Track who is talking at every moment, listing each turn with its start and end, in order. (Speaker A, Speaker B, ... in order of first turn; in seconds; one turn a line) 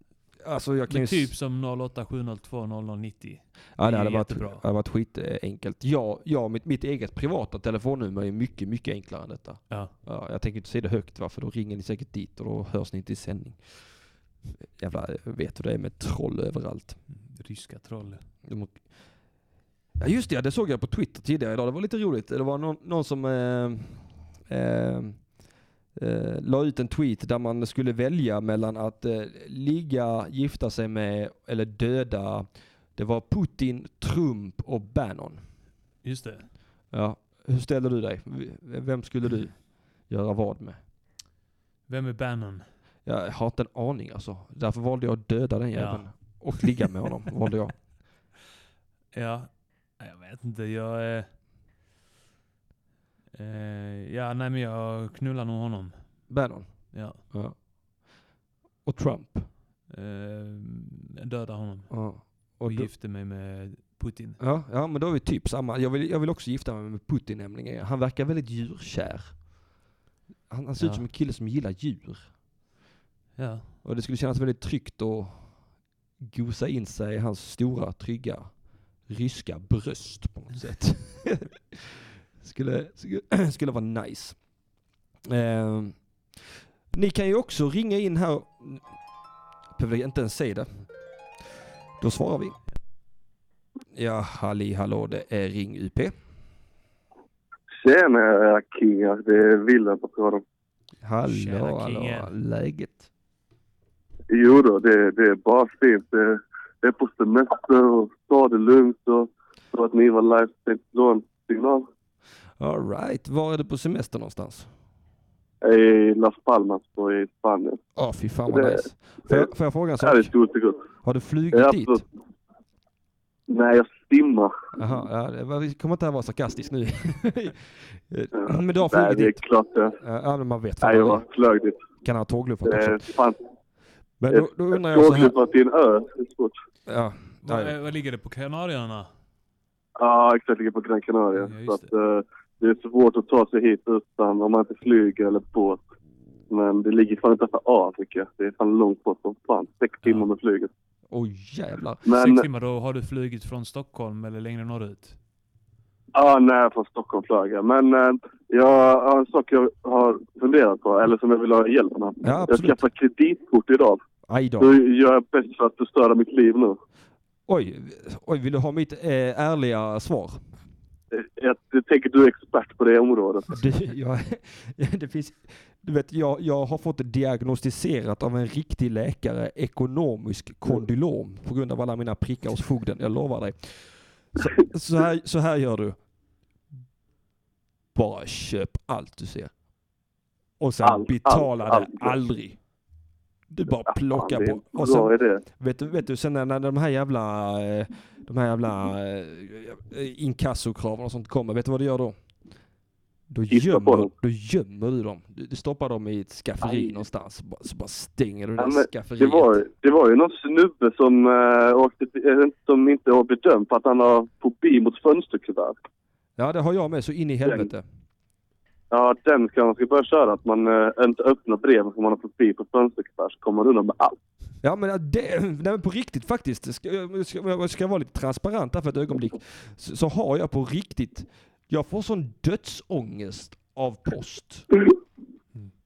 Speaker A: 0.4-1.3
Speaker B: 0.9-4.6
Speaker A: 3.8-13.6
Speaker A: 14.6-17.0
Speaker B: 17.1-18.2
Speaker A: 18.4-18.8
Speaker A: 20.0-25.2
Speaker A: 25.9-35.4
Speaker B: 36.0-36.5
Speaker A: 36.9-40.8
Speaker B: 41.9-42.6
Speaker A: 43.0-47.8
Speaker B: 45.7-46.1
Speaker B: 49.1-51.3
Speaker B: 53.3-56.0
Speaker A: 56.3-57.5
Speaker B: 56.9-57.2
Speaker A: 58.8-59.5
Speaker B: 59.9-64.4
Speaker A: 61.9-62.9
Speaker A: 64.4-69.4
Speaker A: 70.5-72.3
Speaker B: 70.8-71.0
Speaker B: 73.4-73.7
Speaker A: 73.8-75.4
Speaker A: 76.2-78.5
Speaker A: 79.1-84.4
Speaker A: 85.2-86.0
Speaker A: 86.9-88.8
Speaker A: 89.7-90.7
Speaker A: 92.0-92.6
Speaker A: 93.9-96.1
Speaker C: 97.8-100.4
Speaker A: 101.0-103.1
Speaker B: 101.2-102.3
Speaker C: 104.3-111.8
Speaker A: 112.6-114.7
Speaker C: 115.6-117.8
Speaker A: 118.0-120.3
Speaker C: 118.5-119.5
Speaker C: 120.0-120.8
Speaker A: 121.0-122.0
Speaker C: 121.5-122.0
Speaker C: 123.5-124.5
Speaker A: 124.7-129.4
Speaker C: 128.3-129.9
Speaker A: 130.0-131.2
Speaker C: 130.8-131.8
Speaker A: 132.0-133.0
Speaker C: 132.7-133.4
Speaker A: 134.2-135.3
Speaker C: 134.3-136.5
Speaker A: 136.9-137.7
Speaker B: 137.4-139.1
Speaker C: 140.0-145.8
Speaker B: 141.3-141.9
Speaker C: 146.5-150.7
Speaker A: 151.1-152.0
Speaker C: 152.0-152.4
Speaker B: 152.1-155.2
Speaker C: 156.1-164.0
Speaker A: 162.2-162.8
Speaker A: 164.3-164.7
Speaker C: 164.6-166.8
Speaker A: 167.5-170.4
Speaker C: 171.1-173.6
Speaker A: 173.5-186.0
Speaker A: 187.9-189.5
Speaker A: 190.6-192.6
Speaker C: 190.8-192.1
Speaker A: 193.5-202.1
Speaker C: 193.7-195.4
Speaker A: 203.3-209.6
Speaker C: 203.5-204.1
Speaker C: 206.6-206.9
Speaker C: 208.6-215.7
Speaker A: 216.4-217.8
Speaker C: 218.9-224.2
Speaker A: 224.6-234.7